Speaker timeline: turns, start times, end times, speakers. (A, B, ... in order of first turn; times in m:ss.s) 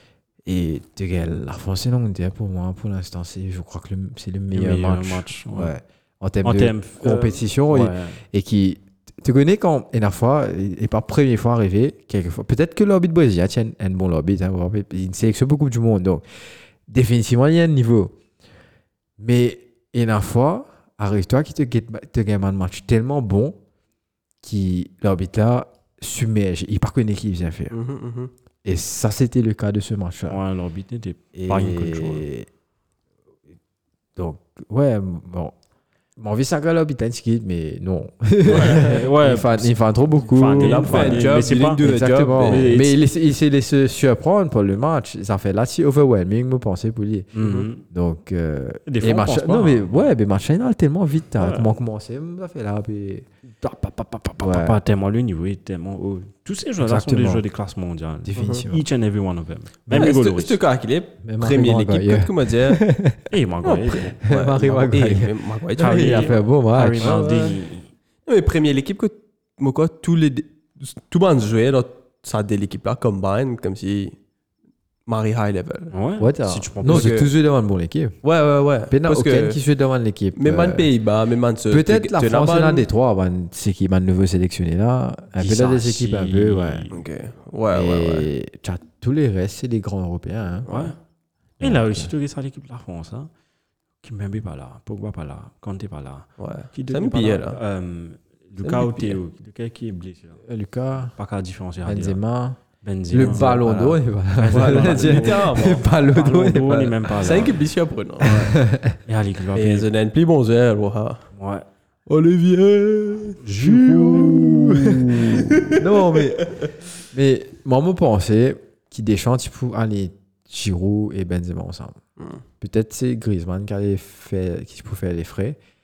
0:00.4-0:16.2 A
0:04.5-0:05.7 B
0:06.4-0:08.2 B
0:16.9-0:18.1 A
0:19.2-0:23.6 A
0:24.4-0:27.7 A
0:27.7-0:28.3 C
0:28.6-0:30.4 A
0:30.3-0:32.2 B
0:31.4-0:32.5 A
0:34.2-0:35.5 A
0:36.2-0:53.3 A
0:38.5-0:43.0 B
0:40.6-0:42.7 C
0:47.3-0:47.8 B
0:47.4-0:47.7 C
0:48.9-0:50.1 B
0:51.4-0:51.8 B
0:53.6-1:00.6 B
0:54.4-0:54.8 A
0:56.8-0:57.4 A
0:58.2-0:58.8 A
0:58.4-0:58.6 C
0:59.9-1:02.8 C
1:01.2-1:03.3 A
1:03.3-1:04.2 B
1:03.6-1:06.4 C
1:04.2-1:07.5 A
1:05.8-1:07.9 B
1:07.0-1:07.5 C
1:08.2-1:14.2 C
1:15.1-1:15.9 C
1:15.9-1:17.1 B
1:16.2-1:18.1 A
1:16.8-1:17.3 C
1:18.2-1:19.6 C
1:18.9-1:20.9 A
1:20.4-1:22.9 C
1:21.7-1:26.9 A
1:25.4-1:27.0 B
1:26.9-1:28.3 C
1:27.7-1:30.7 A
1:30.7-1:30.9 C
1:30.7-1:31.0 B
1:31.6-1:33.3 B
1:31.6-1:32.1 A
1:34.0-1:40.4 B
1:36.4-1:37.6 C
1:38.6-1:39.2 C
1:40.4-1:41.2 A
1:41.2-1:42.2 B
1:41.8-1:47.1 A
1:42.8-1:43.6 B
1:43.2-1:45.9 C
1:44.4-1:47.6 B
1:47.1-1:48.6 C
1:48.2-1:49.0 A
1:49.1-1:49.9 B
1:49.5-1:51.2 C
1:51.4-1:51.6 B
1:52.1-1:53.4 C
1:53.4-1:55.6 B
1:53.6-2:02.0 A
1:54.0-1:54.5 C
1:55.1-1:56.7 C
2:02.6-2:05.6 A